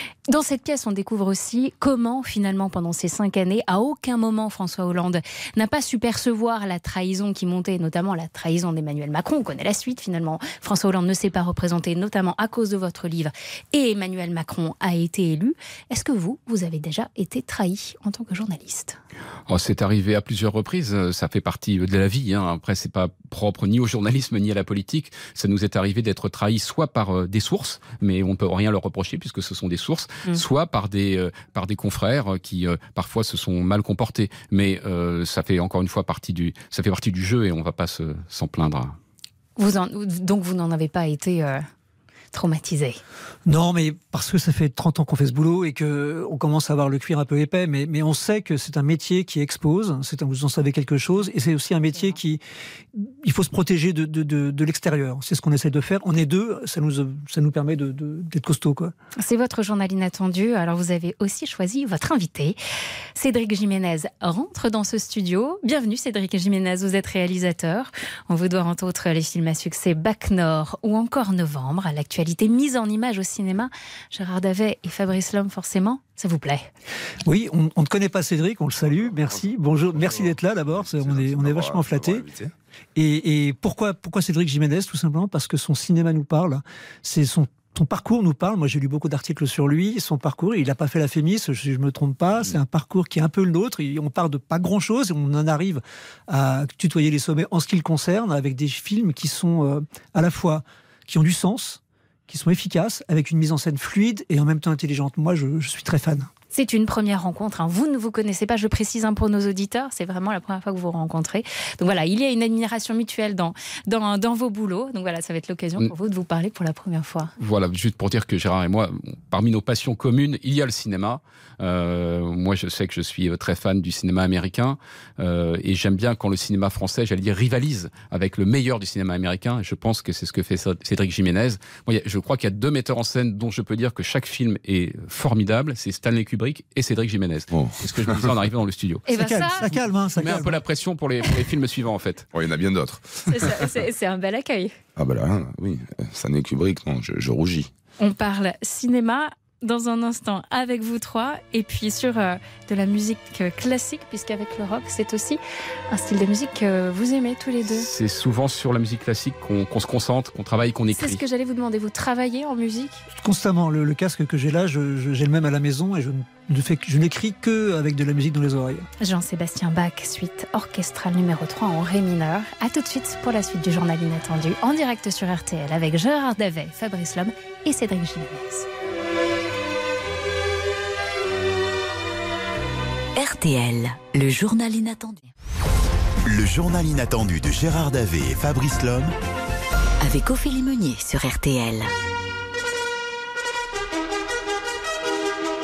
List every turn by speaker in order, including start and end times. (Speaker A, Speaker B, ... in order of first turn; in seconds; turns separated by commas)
Speaker A: 0.3-19.0, Speaker B: 19.5-39.0, Speaker A: 39.6-41.6, Speaker A: 42.3-43.0, Speaker C: 43.5-52.4, Speaker C: 52.9-58.9, Speaker A: 59.2-62.6, Speaker A: 63.1-76.7, Speaker C: 77.2-82.2, Speaker D: 79.1-79.4, Speaker D: 79.9-82.5, Speaker C: 83.0-106.3, Speaker A: 106.5-117.3, Speaker B: 117.4-139.0, Speaker D: 137.5-138.3, Speaker A: 139.1-139.6, Speaker C: 139.2-140.6, Speaker B: 139.6-142.2, Speaker D: 142.3-143.3, Speaker A: 143.3-144.7, Speaker D: 145.0-147.7, Speaker A: 148.0-157.9, Speaker B: 157.7-161.2, Speaker A: 160.9-163.0, Speaker C: 163.1-168.9, Speaker A: 169.0-178.7, Speaker E: 183.1-185.3, Speaker F: 186.3-189.1, Speaker E: 190.0-191.9